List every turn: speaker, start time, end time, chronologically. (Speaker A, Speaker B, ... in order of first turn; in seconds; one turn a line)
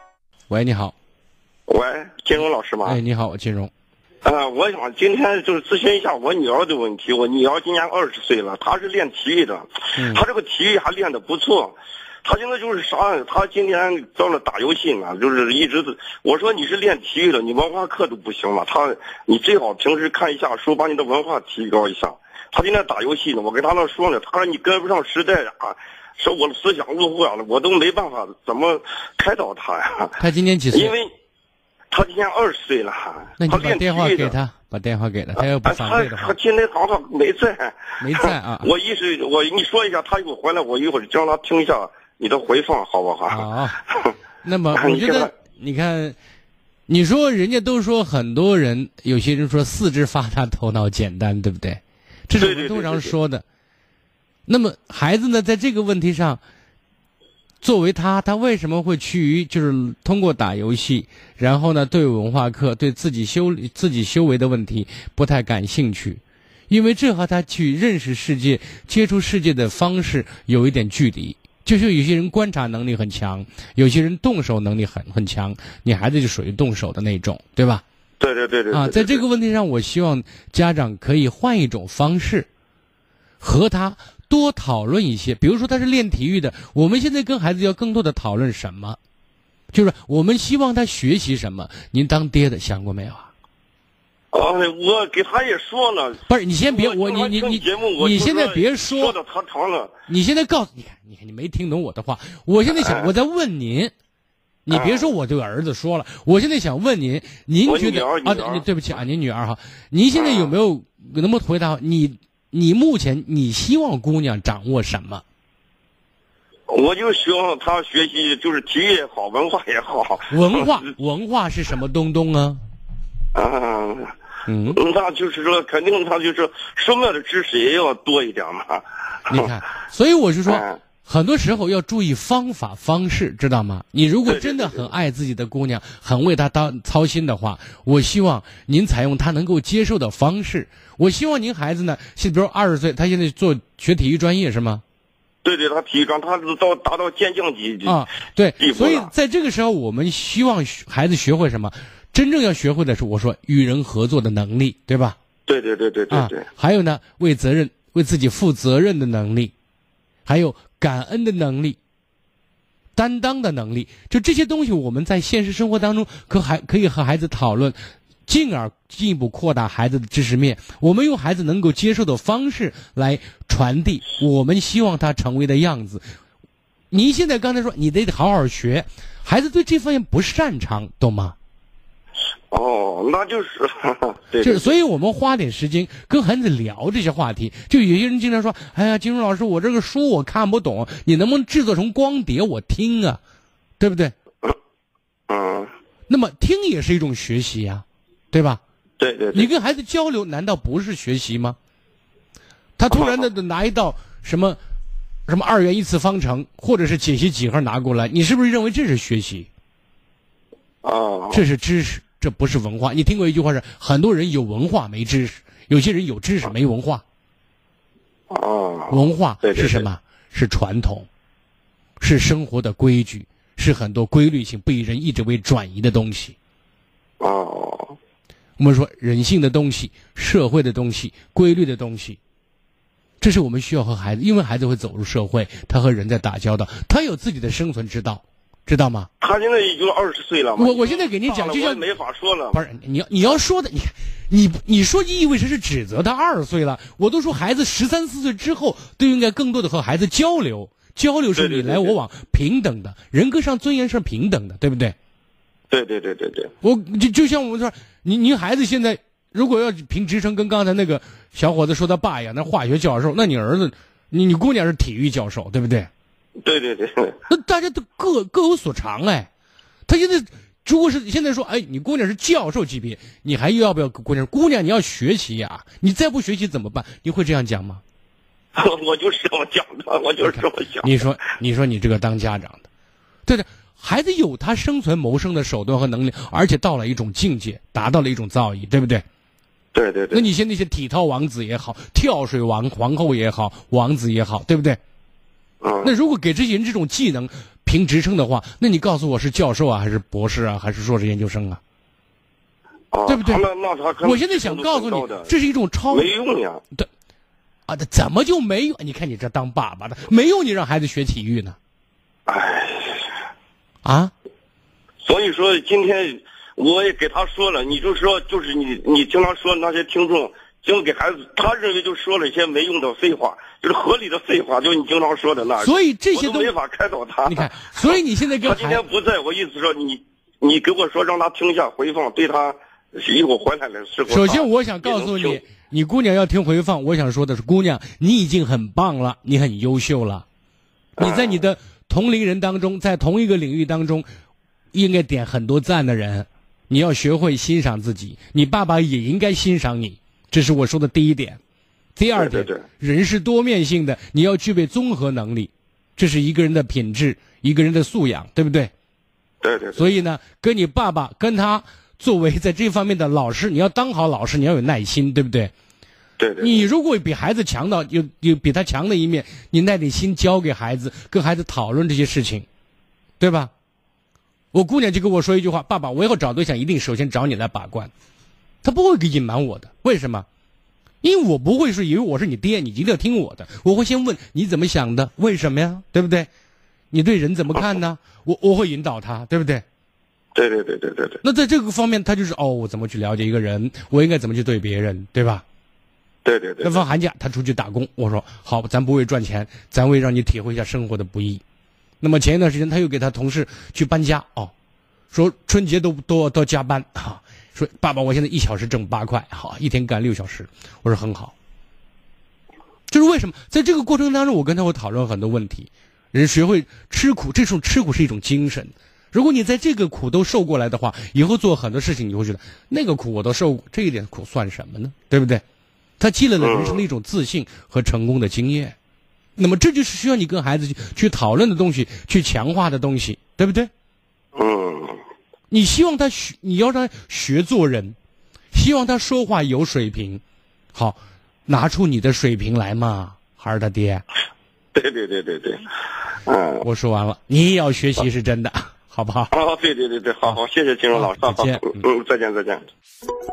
Speaker A: 0.5-0.9
Speaker B: 1.7-3.0
Speaker A: 2.8-3.7
Speaker B: 4.2-30.2
Speaker A: 10.0-10.2
Speaker A: 30.2-30.9
Speaker B: 30.7-31.1
Speaker B: 31.9-34.4
Speaker A: 33.4-36.3
Speaker B: 35.4-44.1
Speaker A: 38.0-38.7
Speaker A: 43.3-43.8
Speaker A: 44.4-46.1
Speaker B: 44.7-45.3
Speaker A: 46.9-53.4
Speaker B: 52.4-53.1
Speaker A: 54.5-56.4
Speaker A: 57.6-77.8
Speaker B: 78.2-79.2
Speaker A: 78.7-82.5
Speaker A: 83.4-89.0
Speaker A: 89.7-93.3
Speaker B: 94.3-99.9
Speaker A: 96.3-99.2
Speaker A: 100.1-103.9
Speaker B: 102.7-103.1
Speaker A: 104.7-115.2
Speaker B: 104.7-105.1
Speaker B: 107.6-108.7
Speaker B: 110.1-110.5
Speaker B: 116.7-120.8
Speaker A: 120.3-122.6
Speaker B: 123.3-124.1
Speaker A: 124.5-124.8
Speaker B: 124.7-129.5
Speaker A: 129.3-144.8
Speaker B: 130.4-130.8
Speaker B: 134.2-134.9
Speaker B: 145.4-148.0
Speaker A: 147.8-155.2
Speaker B: 148.6-149.1
Speaker B: 155.5-156.4
Speaker A: 156.1-159.5
Speaker A: 160.2-161.8
Speaker A: 162.9-176.0
Speaker A: 176.9-181.3
Speaker B: 182.5-184.7
Speaker A: 184.4-193.2
Speaker A: 193.8-194.1
Speaker B: 195.3-195.7
Speaker A: 196.1-198.6
Speaker B: 199.0-199.5
Speaker A: 199.3-201.6
Speaker A: 202.8-204.6
Speaker B: 202.9-203.3
Speaker A: 205.3-209.5
Speaker B: 210.8-211.4
Speaker A: 211.3-217.0
Speaker B: 218.3-219.9
Speaker A: 218.9-221.1
Speaker A: 222.0-226.3
Speaker B: 227.2-227.9
Speaker A: 228.6-232.2
Speaker A: 233.2-239.1
Speaker B: 239.2-242.6
Speaker A: 240.6-241.8
Speaker A: 242.5-254.9
Speaker B: 251.3-252.0
Speaker B: 255.7-256.5
Speaker A: 256.6-265.9
Speaker B: 266.4-267.2
Speaker A: 267.3-269.3
Speaker A: 269.9-277.8
Speaker B: 278.5-281.0
Speaker A: 280.2-282.7
Speaker A: 283.2-289.0
Speaker B: 289.7-290.3
Speaker A: 290.1-294.8
Speaker B: 295.6-295.9
Speaker A: 295.8-301.6
Speaker B: 302.9-305.3
Speaker A: 303.1-303.4
Speaker A: 304.0-306.1
Speaker B: 305.9-306.6
Speaker A: 307.7-311.6
Speaker B: 312.3-313.1
Speaker A: 313.8-314.1
Speaker B: 315.0-335.4
Speaker A: 325.6-326.5
Speaker A: 327.2-328.8
Speaker A: 334.1-340.2
Speaker A: 341.0-344.1
Speaker B: 341.0-341.4
Speaker A: 344.7-351.4
Speaker A: 352.0-358.7
Speaker B: 352.1-352.6
Speaker B: 359.4-359.9
Speaker A: 359.7-365.5
Speaker B: 366.2-366.7
Speaker A: 366.4-372.4
Speaker A: 373.2-373.5
Speaker A: 374.5-377.9
Speaker A: 378.6-380.2
Speaker A: 381.0-386.3
Speaker A: 386.9-389.6
Speaker B: 390.3-391.2
Speaker A: 391.2-395.4
Speaker B: 396.2-396.9
Speaker A: 396.6-401.4
Speaker A: 402.0-404.5
Speaker A: 405.1-411.3
Speaker A: 412.9-425.4
Speaker A: 426.0-428.7
Speaker B: 426.4-426.8
Speaker A: 429.4-433.7
Speaker B: 434.3-435.0
Speaker A: 435.5-437.9
Speaker A: 438.5-440.2
Speaker A: 440.7-444.0
Speaker B: 444.7-445.7
Speaker B: 446.2-446.6
Speaker A: 446.6-449.3
Speaker B: 449.3-452.6
Speaker A: 450.9-451.8